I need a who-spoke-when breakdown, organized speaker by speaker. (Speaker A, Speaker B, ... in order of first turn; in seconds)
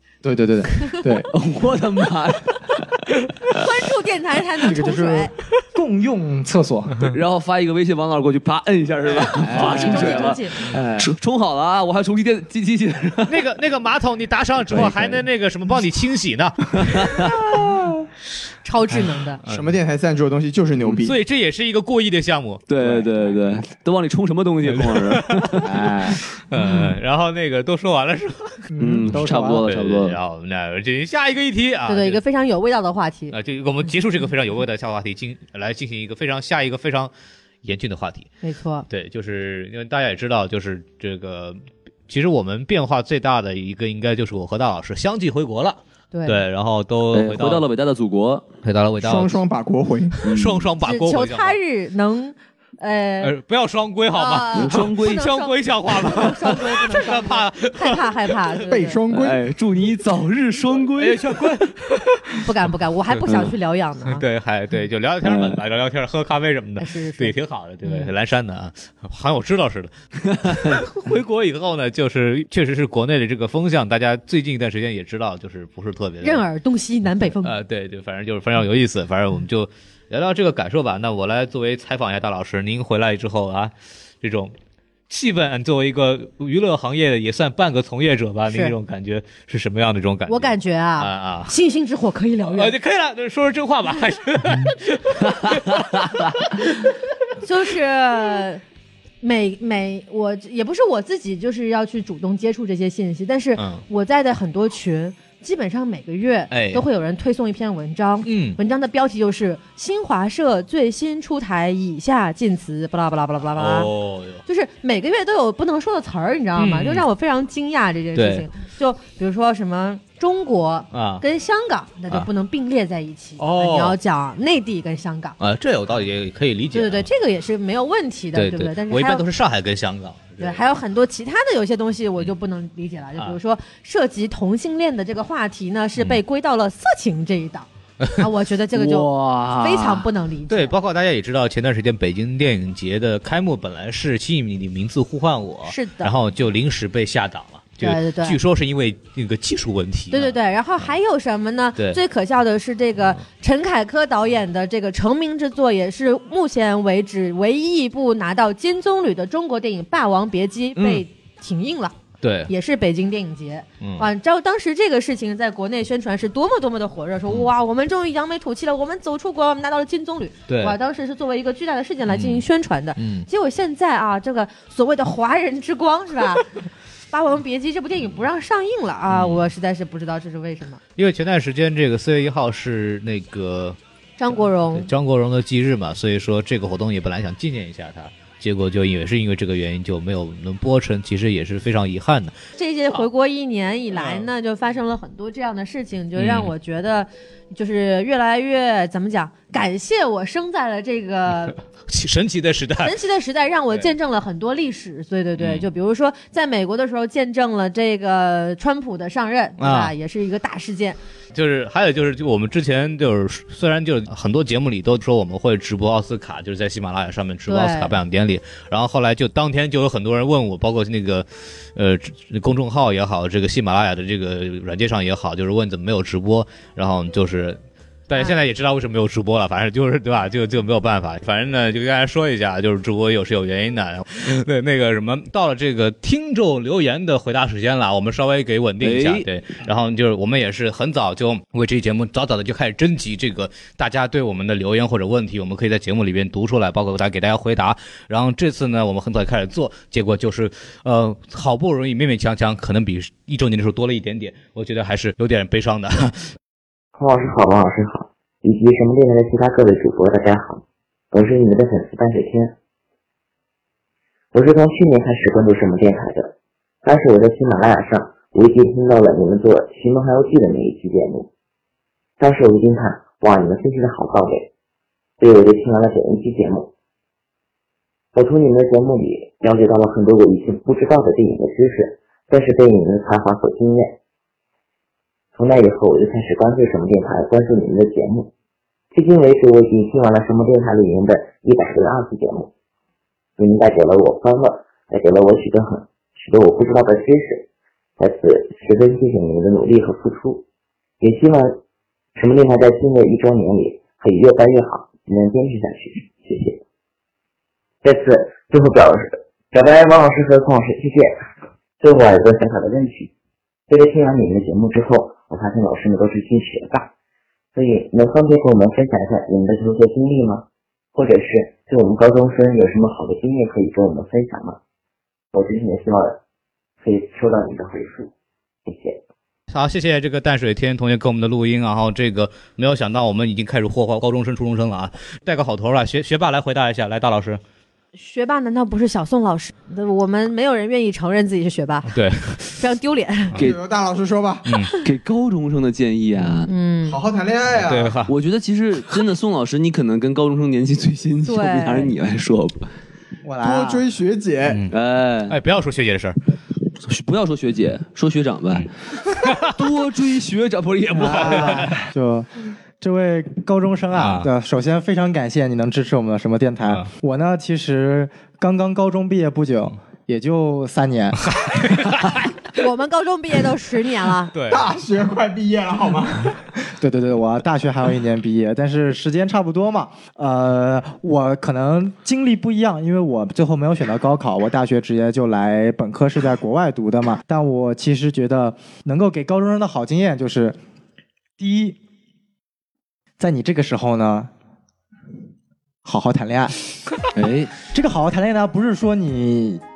Speaker A: 0.2-1.3, 4.6-7.0, 9.4-11.1, 25.6-26.2, 28.7-29.7, 353.2-353.8, 360.9-362.3, 362.8-371.2, 376.8-390.6, 391.4-391.8, 393.2-394.3, 395.8-396.5, 397.7-399.6
Speaker B: 1.3-2.9, 7.1-13.4, 14.7-15.2, 16.8-17.3, 22.7-25.6, 28.8-30.2, 47.1-48.5, 50.2-50.7, 54.5-55.2, 59.1-61.2, 65.2-65.6, 95.3-96.1, 138.7-140.0, 238.8-239.3, 344.8-346.5, 348.1-352.7, 354.7-355.4, 356.9-358.7, 359.6-361.7, 397.2-397.5
Speaker C: 3.6-5.3, 9.5-10.6, 18.6-19.4, 31.9-33.4, 38.4-38.9, 46.1-46.4, 50.8-53.4, 54.1-59.0, 62.4-64.2, 66.8-68.1, 76.2-77.5, 88.5-88.8, 90.3-92.8, 97.4-98.6, 99.2-113.9, 114.5-125.4, 126.7-129.2, 130.4-140.8, 145.6-146.1, 147.8-148.4, 150.1-161.9, 162.5-176.4, 177.1-180.8, 184.2-184.9, 192.6-201.6, 202.8-211.0, 217.4-218.0, 337.9-341.9, 342.6-343.4, 346.5-347.0, 351.3-351.9, 372.6-374.3
Speaker D: 13.3-17.1, 18.9-19.7, 21.0-22.6, 24.7-25.7, 26.5-28.6, 29.6-32.2, 33.3-37.1, 37.6-38.3, 38.9-47.6, 48.6-49.4, 50.2-51.6, 53.2-58.1, 61.0-62.5, 63.1-63.5, 64.1-69.9, 70.5-76.4, 77.4-84.5, 85.1-91.5, 92.5-96.9, 103.6-103.8, 106.5-106.8, 108.2-108.6, 113.5-114.4, 116.6-117.1, 118.1-118.5, 120.9-121.2, 123.4-124.0, 125.4-127.1, 128.3-130.6, 140.5-150.9, 160.8-161.0, 162.2-162.5, 163.8-164.1, 170.5-170.8, 172.1-172.4, 172.9-173.3, 179.1-179.5, 181.0-183.8, 184.3-192.3, 193.9-194.3, 196.1-196.5, 201.5-202.9, 205.4-205.7, 209.6-209.9, 211.3-256.3, 329.5-337.4, 341.9-342.6, 344.4-344.7, 347.6-348.1, 354.5-354.7, 355.3-356.2, 359.2-359.6, 361.2-361.7, 363.9-364.3, 371.3-372.3, 374.3-374.7
Speaker E: 19.5-21.2, 49.0-50.1, 58.7-59.4, 343.4-344.5, 346.9-347.9, 353.4-354.6, 374.5-376.4
Speaker F: 256.9-262.6, 264.3-271.3, 272.2-274.5, 275.2-276.7, 278.1-284.0, 285.3-288.3, 288.9-292.5, 293.4-297.4, 298.0-300.4, 301.0-301.6, 302.2-306.6, 307.8-311.2, 311.8-313.1, 313.7-316.9, 317.5-324.6, 325.3-326.2, 326.8-328.1, 328.7-329.0